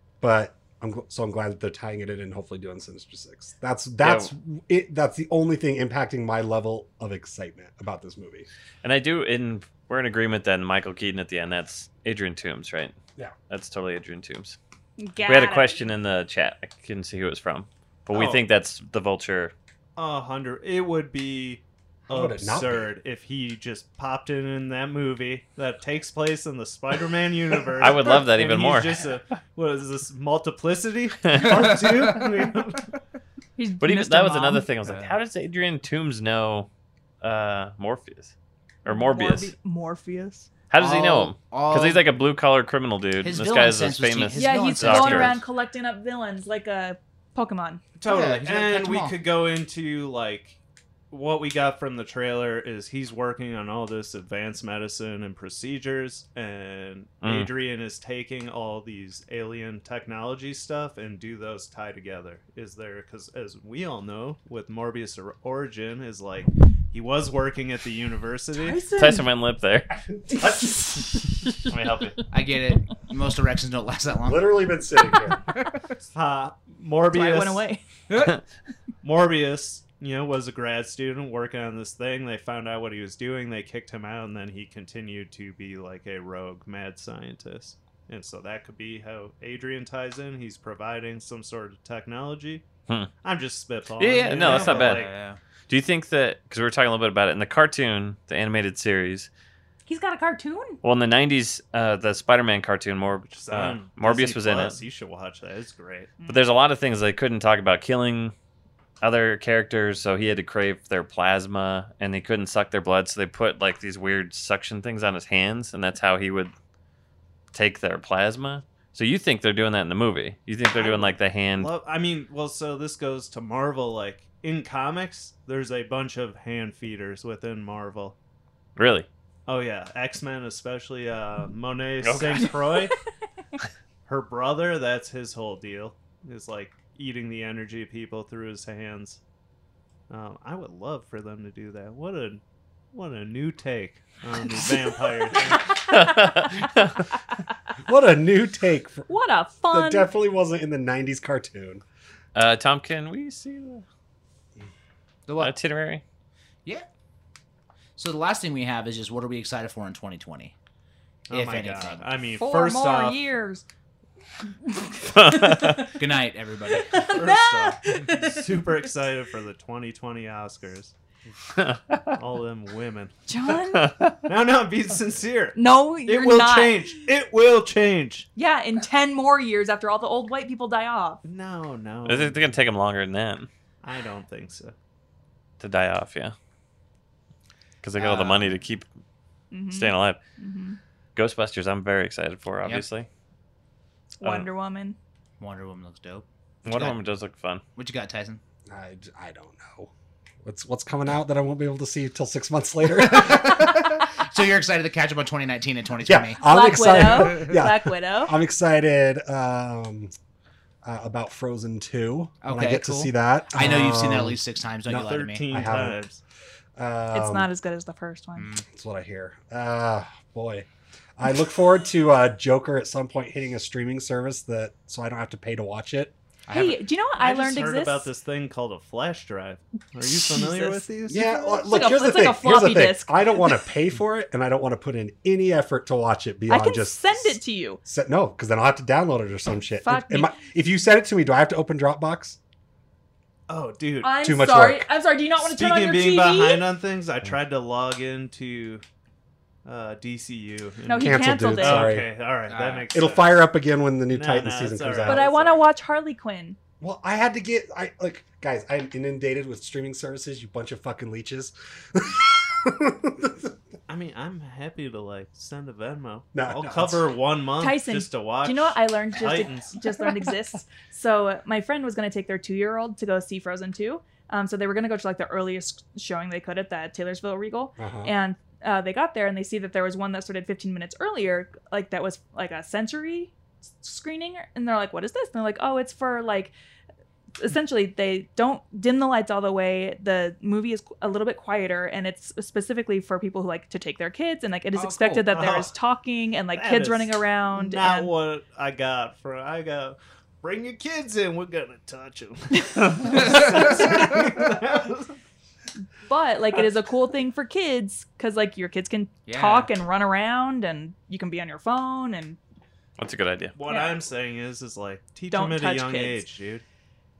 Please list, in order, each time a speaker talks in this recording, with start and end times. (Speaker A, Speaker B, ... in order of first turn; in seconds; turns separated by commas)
Speaker A: 0.2-8.5, Speaker B: 4.0-4.3, Speaker B: 8.8-12.9, Speaker B: 13.5-14.6, Speaker C: 15.0-15.9, Speaker B: 15.2-19.5, Speaker D: 18.1-18.4, Speaker D: 20.0-32.9, Speaker A: 22.1-22.9, Speaker B: 27.8-28.9, Speaker B: 31.2-31.6, Speaker C: 33.6-34.7, Speaker B: 33.8-36.7, Speaker E: 34.8-35.1, Speaker B: 37.2-38.3, Speaker B: 38.9-39.5, Speaker C: 38.9-40.5, Speaker B: 40.7-45.4, Speaker E: 40.8-42.0, Speaker E: 43.2-45.4, Speaker C: 44.3-47.8, Speaker E: 48.0-49.2, Speaker D: 48.0-50.6, Speaker D: 51.1-68.8, Speaker B: 57.2-57.5, Speaker C: 68.6-69.3, Speaker B: 68.9-70.0, Speaker B: 71.7-72.2, Speaker E: 72.3-74.7, Speaker A: 74.2-75.4, Speaker D: 76.1-77.7, Speaker C: 77.1-77.8, Speaker E: 78.1-78.3, Speaker D: 79.0-92.7, Speaker D: 93.2-95.1, Speaker B: 94.0-95.1, Speaker E: 94.3-95.4, Speaker B: 95.7-99.3, Speaker C: 99.9-100.8, Speaker B: 100.8-104.8, Speaker D: 103.2-106.2, Speaker B: 106.3-108.3, Speaker B: 109.0-116.5, Speaker B: 117.5-121.7, Speaker D: 120.7-128.2, Speaker B: 128.8-129.1, Speaker D: 129.5-132.9, Speaker B: 132.0-132.6, Speaker D: 134.1-139.2, Speaker D: 140.1-142.4, Speaker D: 142.9-145.8, Speaker C: 145.1-146.8, Speaker B: 145.8-147.0, Speaker A: 147.9-149.1, Speaker C: 149.1-150.1, Speaker A: 149.7-151.8, Speaker B: 152.3-153.8, Speaker E: 155.3-155.6, Speaker B: 155.4-156.0, Speaker E: 158.0-160.5, Speaker D: 161.3-163.2, Speaker E: 161.3-162.1, Speaker C: 162.3-163.7, Speaker C: 164.7-165.9, Speaker B: 165.1-165.9, Speaker E: 165.9-166.9, Speaker C: 166.7-168.8, Speaker D: 166.9-170.9, Speaker B: 171.6-172.2, Speaker D: 172.1-173.1, Speaker C: 173.3-173.9, Speaker B: 173.7-174.3, Speaker D: 174.3-178.3, Speaker C: 175.6-177.0, Speaker C: 178.4-181.2, Speaker D: 181.2-182.6, Speaker B: 182.1-183.5, Speaker D: 183.8-184.8, Speaker B: 185.6-186.3, Speaker B: 187.8-188.9, Speaker E: 188.0-188.6, Speaker C: 189.5-190.8, Speaker B: 189.7-190.2, Speaker B: 191.2-193.1, Speaker C: 194.2-195.0, Speaker B: 194.2-194.5, Speaker E: 195.4-197.0, Speaker B: 196.7-197.6, Speaker E: 197.8-198.4, Speaker A: 198.7-199.9, Speaker A: 200.4-204.0, Speaker E: 202.9-207.2, Speaker A: 206.0-210.1, Speaker C: 206.4-208.4, Speaker A: 210.8-216.0, Speaker E: 212.4-215.7, Speaker D: 215.0-216.2, Speaker A: 216.8-217.5, Speaker C: 217.1-218.5, Speaker E: 218.4-218.7, Speaker A: 218.7-220.7, Speaker A: 221.2-226.1, Speaker E: 226.5-226.8, Speaker C: 226.5-228.1, Speaker D: 227.2-231.3, Speaker A: 231.1-242.4, Speaker C: 231.2-233.6, Speaker C: 236.5-237.8, Speaker C: 239.8-240.3, Speaker D: 243.5-244.2, Speaker C: 244.0-246.7, Speaker A: 244.2-244.9, Speaker D: 245.4-248.8, Speaker D: 249.7-253.4, Speaker C: 250.9-251.9, Speaker A: 251.0-252.1, Speaker E: 252.5-252.9, Speaker A: 252.9-255.3, Speaker D: 254.1-255.6, Speaker C: 255.1-256.6, Speaker A: 256.8-263.5, Speaker D: 263.9-269.8, Speaker A: 266.4-267.1, Speaker C: 267.6-286.5, Speaker A: 277.8-278.1, Speaker C: 287.4-298.1, Speaker E: 294.7-295.3, Speaker D: 295.3-295.7, Speaker D: 296.5-305.1, Speaker C: 306.0-312.4, Speaker E: 309.3-309.7, Speaker B: 313.0-313.6, Speaker D: 313.6-316.6, Speaker C: 313.7-314.0, Speaker C: 315.3-316.2